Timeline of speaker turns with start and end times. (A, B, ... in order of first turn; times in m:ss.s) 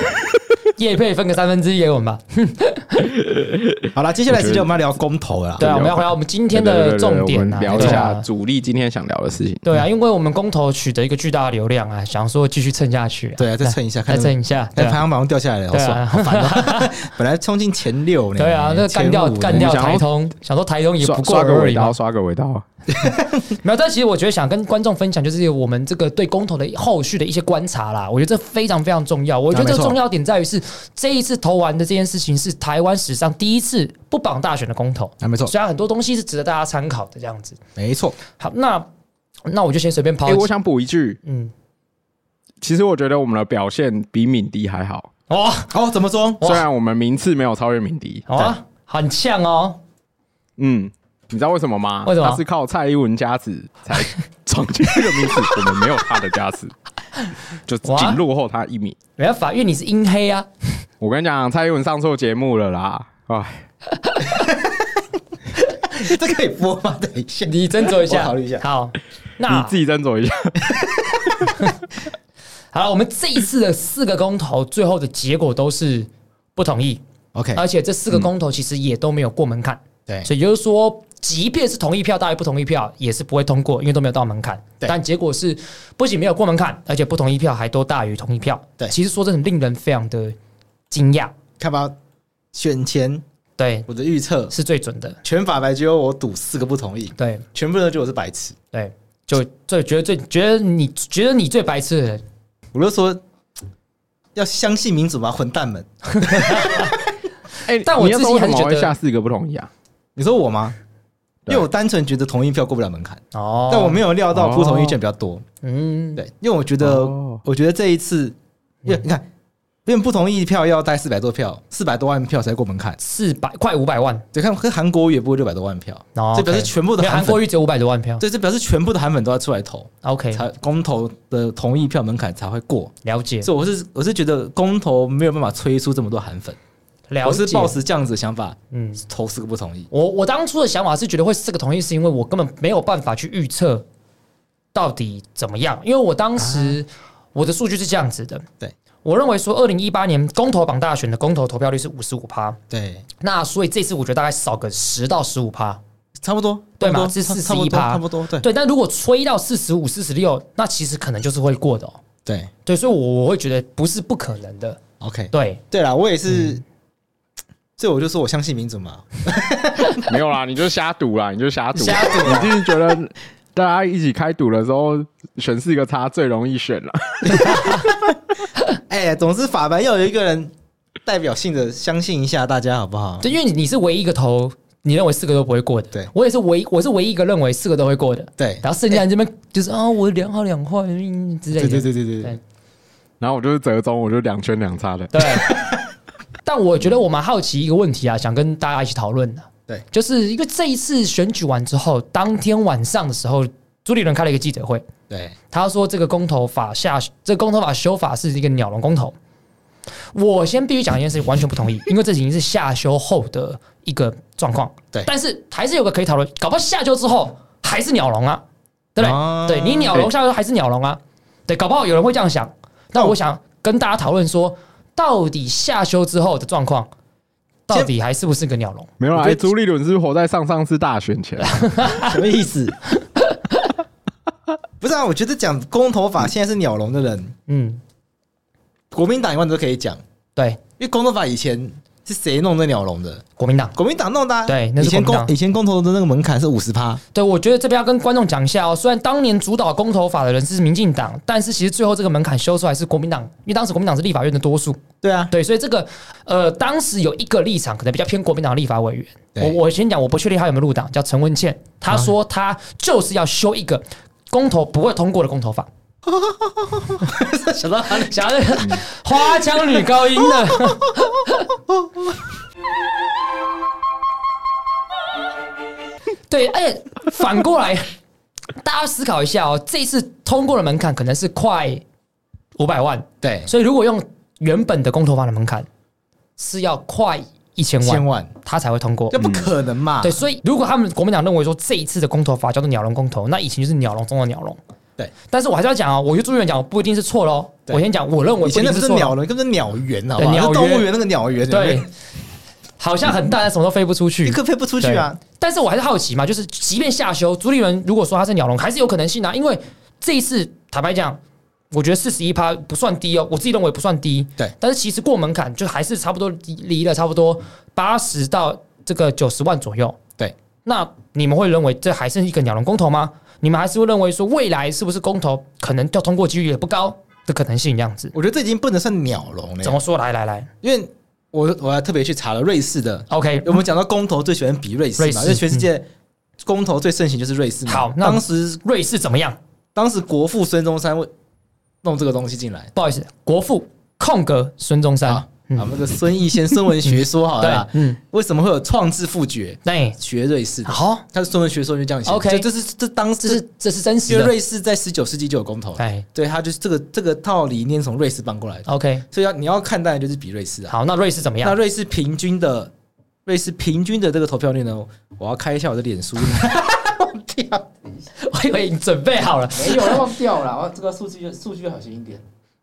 0:00.8-0:03.1 A
0:03.3-0:04.7 B
0:03.9-0:05.7 C
0:05.6-0:09.7 B
0:05.6-0:08.2 A
0:07.7-0:08.0 C
0:09.6-0:15.0 A
0:13.4-0:19.7 C
0:15.7-0:17.0 A
0:18.4-0:22.0 A
0:19.5-0:20.1 B
0:21.0-0:22.6 B
0:22.9-0:23.5 C
0:23.5-0:37.6 A
0:29.5-0:30.0 C
0:35.2-0:35.5 C
0:37.8-0:38.2 C
0:38.4-0:38.9 A
0:39.5-0:40.5 A
0:40.3-0:41.2 B
0:41.2-0:41.5 A
0:42.6-0:45.1 B
0:45.3-0:45.7 A
0:45.7-0:46.4 C
0:46.4-0:48.4 B
0:48.3-0:49.8 A
0:50.6-0:56.7 B
0:52.0-0:52.4 A
0:57.7-0:59.0 B
0:57.8-0:58.2 A
0:59.2-1:00.5 A
1:01.0-1:03.7 B
1:04.0-1:04.5 A
1:04.3-1:05.0 C
1:05.9-1:08.6 C
1:07.5-1:09.7 A
1:09.5-1:11.4 B
1:10.7-1:11.2 C
1:11.5-1:11.8 A
1:12.7-1:17.0 A
1:17.3-1:17.6 C
1:17.6-1:30.4 A
1:30.9-1:31.3 A
1:31.6-1:32.0 C
1:32.5-1:33.2 C
1:33.6-1:33.9 A
1:33.9-1:34.5 C
1:34.5-1:35.2 A
1:35.2-1:38.6 C
1:37.2-1:37.4 A
1:38.7-1:42.2 A
1:42.7-1:43.2 C
1:44.4-1:47.0 C
1:46.2-1:46.9 A
1:47.6-1:49.7 B
1:47.8-1:48.9 A
1:50.2-1:50.8 C
1:51.5-1:55.4 C
1:53.3-1:54.0 A
1:54.3-1:55.0 B
1:55.6-1:56.2 A
1:56.2-1:59.2 C
1:56.8-1:57.4 B
1:59.9-2:03.0 C
2:03.0-2:04.2 A
2:04.3-2:07.4 C
2:06.2-2:08.2 A
2:08.2-2:12.9 C
2:10.0-2:10.4 A
2:13.0-2:13.5 A
2:13.4-2:16.6 C
2:17.1-2:17.8 A
2:17.2-2:19.9 C
2:18.7-2:19.0 A
2:19.9-2:23.8 A
2:24.7-2:28.5 A
2:26.4-2:26.8 C
2:29.0-2:32.6 A
2:32.7-2:33.0 C
2:33.2-2:35.8 A
2:36.2-2:38.5 C
2:36.8-2:42.0 A
2:42.2-2:42.5 C
2:42.7-2:44.8 A
2:45.0-2:46.6 C
2:45.3-2:45.6 A
2:46.3-2:46.6 A
2:47.8-2:50.1 C
2:50.0-2:57.8 B
2:51.8-2:52.6 C
2:51.8-2:52.4 A
2:57.3-2:57.8 A
2:57.4-2:58.2 C
2:58.9-3:00.5 C
3:01.0-3:03.3 C
3:03.2-3:12.4 A
3:08.4-3:09.0 C
3:11.6-3:12.4 C
3:13.2-3:15.3 B
3:15.1-3:15.6 A
3:15.5-3:15.8 C
3:16.4-3:24.9 A
3:25.5-3:29.2 A
3:30.1-3:38.4 A
3:39.0-3:46.9 A
3:39.0-3:40.1 C
3:47.7-3:48.9 A
3:49.0-3:51.7 B
3:49.1-3:49.5 C
3:51.4-3:52.1 A
3:52.0-3:52.8 C
3:53.2-3:53.7 A
3:54.8-3:57.3 C
3:57.5-3:57.8 A
3:58.9-4:00.0 C
4:00.8-4:03.2 C
4:03.4-4:03.8 A
4:03.8-4:07.0 C
4:04.5-4:05.3 A
4:07.1-4:25.7 A
4:15.0-4:15.3 C
4:26.1-4:28.8 C
4:27.9-4:31.5 A
4:30.2-4:31.0 C
4:31.7-4:32.2 C
4:36.3-4:37.9 A
4:38.6-4:41.8 A
4:42.6-4:45.7 A
4:43.2-4:43.5 C
4:46.4-4:49.3 A
4:47.8-4:48.3 C
4:49.1-4:50.2 C
4:49.2-4:49.5 B
4:50.0-4:54.6 A
4:55.3-4:59.2 A
4:58.4-5:01.9 C
5:00.2-5:00.9 A
5:01.5-5:01.9 A
5:02.8-5:11.2 A
5:04.2-5:05.2 C
5:11.7-5:20.0 A
5:20.6-5:28.1 A
5:28.1-5:29.8 C
5:29.6-5:30.5 A
5:30.6-5:35.9 C
5:33.1-5:33.6 A
5:35.0-5:35.7 A
5:36.4-5:38.6 C
5:37.7-5:39.4 A
5:39.8-5:41.1 C
5:41.8-5:42.7 C
5:42.8-5:45.8 A
5:45.1-5:53.4 C
5:46.8-5:48.0 A
5:49.6-5:50.0 A
5:50.7-5:51.0 A
5:52.0-5:52.5 A
5:53.2-5:54.3 A
5:54.1-6:00.7 C
5:55.8-5:56.0 A
5:58.7-5:59.0 A
6:00.7-6:01.6 A
6:01.4-6:02.7 C
6:03.3-6:07.7 C
6:08.2-6:10.0 A
6:09.5-6:12.2 C